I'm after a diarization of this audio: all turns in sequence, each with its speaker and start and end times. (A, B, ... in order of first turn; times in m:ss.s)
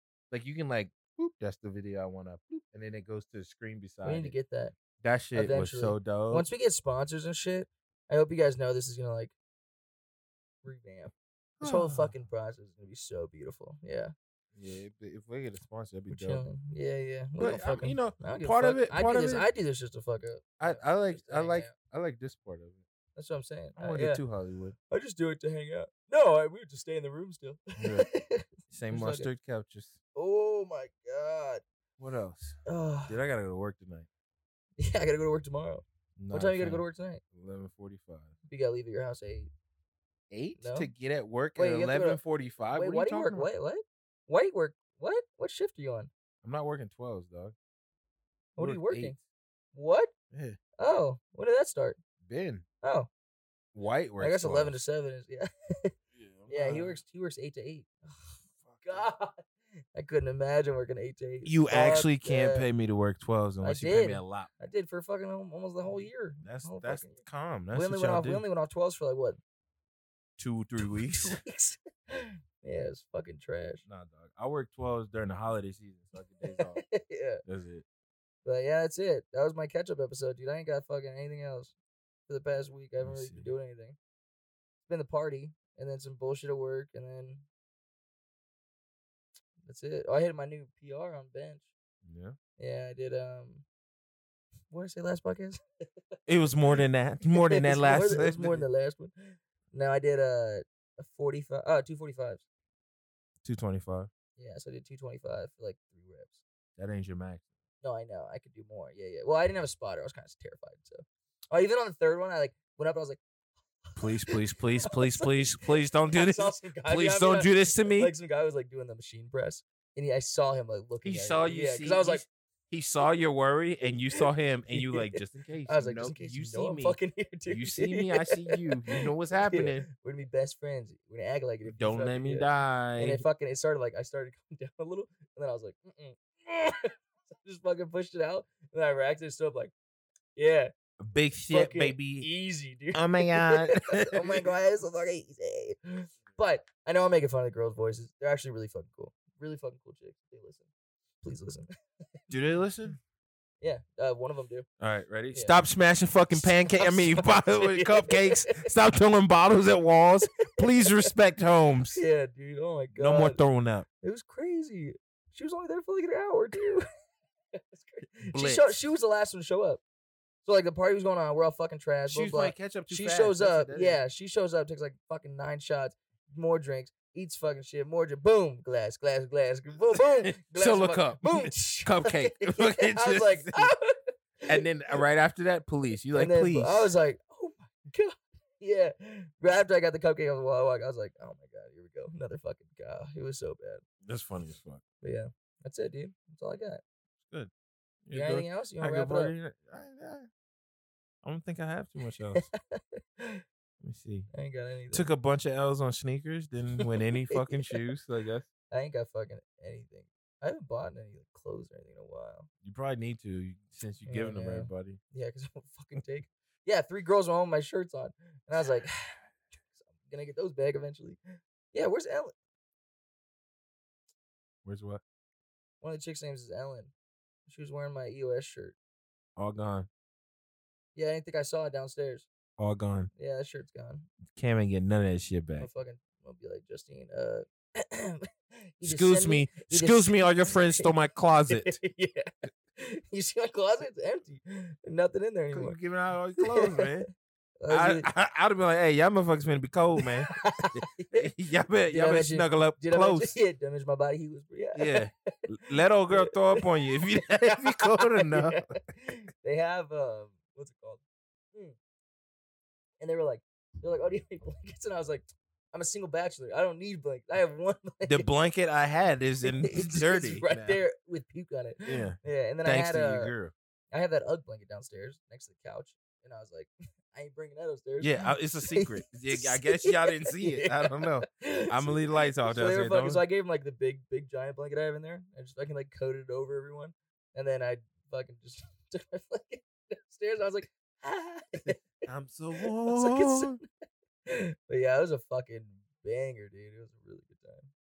0:00.3-0:04.4 A
0:04.0-0:04.8 B
0:05.0-0:06.5 A
0:05.3-0:09.3 B
0:10.6-0:14.1 B
0:11.6-0:12.1 A
0:14.6-0:16.4 A
0:16.1-0:21.7 B
0:17.4-0:19.5 A
0:20.6-0:22.8 A
0:23.2-0:24.2 B
0:23.8-0:24.8 A
0:24.9-0:29.3 B
0:27.8-0:28.1 A
0:28.7-0:30.0 A
0:30.2-0:31.6 B
0:32.0-0:34.1 A
0:32.7-0:33.2 B
0:34.8-0:37.2 B
0:36.2-0:38.3 A
0:38.5-0:39.5 B
0:40.3-0:43.5 A
0:40.6-0:40.9 B
0:41.6-0:42.2 B
0:42.7-0:46.1 B
0:46.4-0:47.6 A
0:48.6-0:49.2 B
0:48.6-0:49.2 A
0:49.7-0:50.1 B
0:50.3-0:50.6 A
0:50.8-0:52.0 B
0:52.2-0:52.6 A
0:52.8-0:53.1 B
0:53.7-0:54.8 A
0:54.2-0:55.9 B
0:56.1-0:57.0 A
0:56.5-1:02.7 B
0:58.6-0:59.1 A
1:01.4-1:04.5 A
1:03.6-1:07.2 B
1:06.4-1:08.4 A
1:07.7-1:09.4 B
1:10.4-1:11.4 A
1:10.8-1:13.8 B
1:13.9-1:16.8 A
1:16.5-1:17.4 B
1:17.4-1:17.8 A
1:18.4-1:21.7 B
1:22.3-1:24.0 B
1:23.0-1:23.5 A
1:24.9-1:27.4 B
1:29.6-1:31.7 B
1:32.0-1:32.4 A
1:32.6-1:33.6 B
1:34.7-1:35.6 B
1:36.3-1:38.7 A
1:37.4-1:42.4 B
1:43.4-1:44.1 A
1:44.4-1:46.4 B
1:46.8-1:47.5 A
1:47.8-1:53.2 B
1:53.9-2:02.2 B
1:54.0-1:58.1 A
2:01.0-2:09.9 A
2:04.2-2:19.7 B
2:11.6-2:13.2 A
2:20.4-2:20.7 B
2:21.0-2:22.3 A
2:21.5-2:30.7 B
2:22.9-2:24.5 A
2:31.2-2:31.7 B
2:32.3-2:33.0 A
2:33.6-2:34.7 B
2:34.8-2:42.0 A
2:35.3-2:35.6 B
2:36.4-2:38.7 B
2:40.4-2:41.1 B
2:42.0-2:43.4 B
2:43.0-2:43.9 A
2:44.0-2:46.9 B
2:47.5-2:49.8 B
2:48.3-2:48.7 A
2:50.4-3:05.0 B
2:52.1-2:54.0 A
2:59.9-3:03.7 A
3:04.5-3:06.9 A
3:06.1-3:13.8 B
3:14.0-3:14.8 A
3:15.0-3:16.8 B
3:17.2-3:17.5 A
3:18.1-3:20.3 A
3:18.1-3:19.3 B
3:21.2-3:22.4 A
3:22.4-3:23.4 B
3:23.8-3:24.3 A
3:24.3-3:25.1 B
3:24.9-3:28.5 A
3:27.3-3:27.8 B
3:28.7-3:32.5 B
3:32.6-3:35.0 A
3:34.1-3:39.2 B
3:39.7-3:41.2 B
3:41.7-3:42.3 B
3:44.6-3:45.0 A
3:45.8-3:46.9 B
3:47.5-3:48.8 B
3:49.4-3:49.9 A
3:51.0-3:52.3 B
3:52.6-3:53.1 A
3:53.2-3:54.1 B
3:54.3-3:55.7 A
3:55.6-4:00.9 B
3:58.8-4:01.8 A
4:01.5-4:05.8 B
4:05.5-4:07.1 A
4:06.4-4:07.0 B
4:07.6-4:08.1 B
4:07.7-4:13.4 A
4:10.0-4:11.3 B
4:11.9-4:15.4 B
4:14.8-4:18.7 A
4:16.1-4:21.0 B
4:23.0-4:28.3 B
4:28.1-4:30.8 A
4:29.4-4:33.3 B
4:31.9-4:33.5 A
4:33.9-4:51.9 B
4:38.0-4:43.2 A
4:51.6-4:53.6 A
4:52.6-4:53.6 B
4:54.3-4:57.7 B